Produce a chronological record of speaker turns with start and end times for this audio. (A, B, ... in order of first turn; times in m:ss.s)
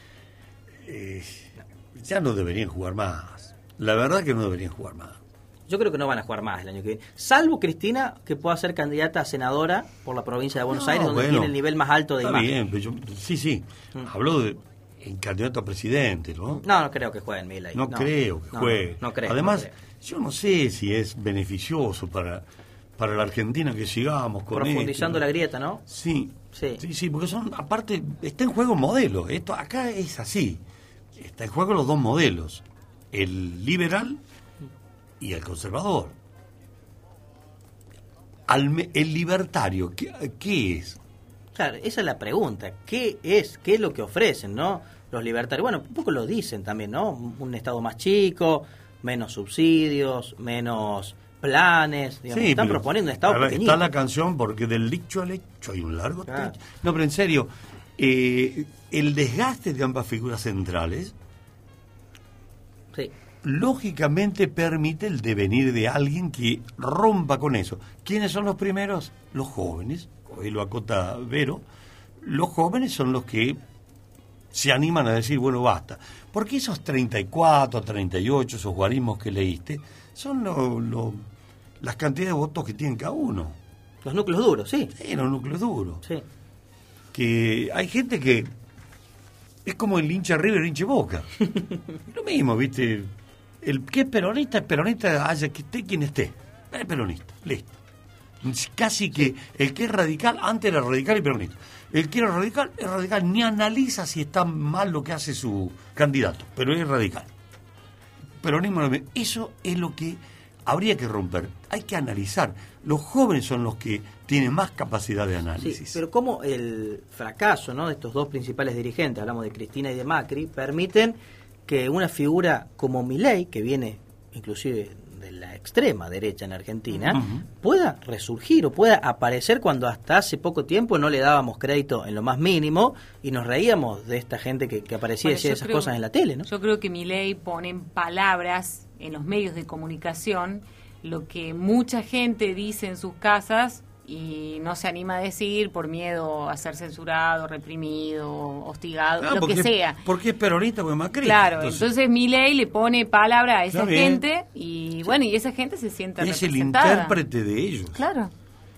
0:00.8-0:05.2 A
0:05.7-0:12.5 B
0:10.7-0:11.6 A
0:12.2-0:16.6 A
0:16.5-0:19.7 B
0:17.7-0:22.4 A
0:23.0-0:25.3 A
0:24.5-0:25.8 B
0:25.9-0:30.6 A
0:26.5-0:26.8 B
0:31.2-0:34.2 A
0:35.2-0:36.1 A
0:38.5-0:41.0 A
0:41.5-0:53.9 B
0:52.3-1:01.1 A
0:56.3-0:56.6 B
1:03.4-1:11.6 A
1:12.2-1:13.6 A
1:14.5-1:21.2 A
1:21.8-1:23.6 A
1:24.0-1:24.9 B
1:24.9-1:26.0 A
1:27.1-1:28.5 A
1:29.6-1:31.3 A
1:32.1-1:33.1 A
1:33.6-1:37.8 A
1:38.4-1:47.3 A
1:48.4-1:56.0 A
1:55.6-2:16.5 B
2:07.1-2:07.4 A
2:15.2-2:30.0 C
2:29.2-2:31.8 A
2:31.2-2:37.2 C
2:33.7-2:34.2 A
2:36.2-2:38.0 A
2:37.9-2:38.3 C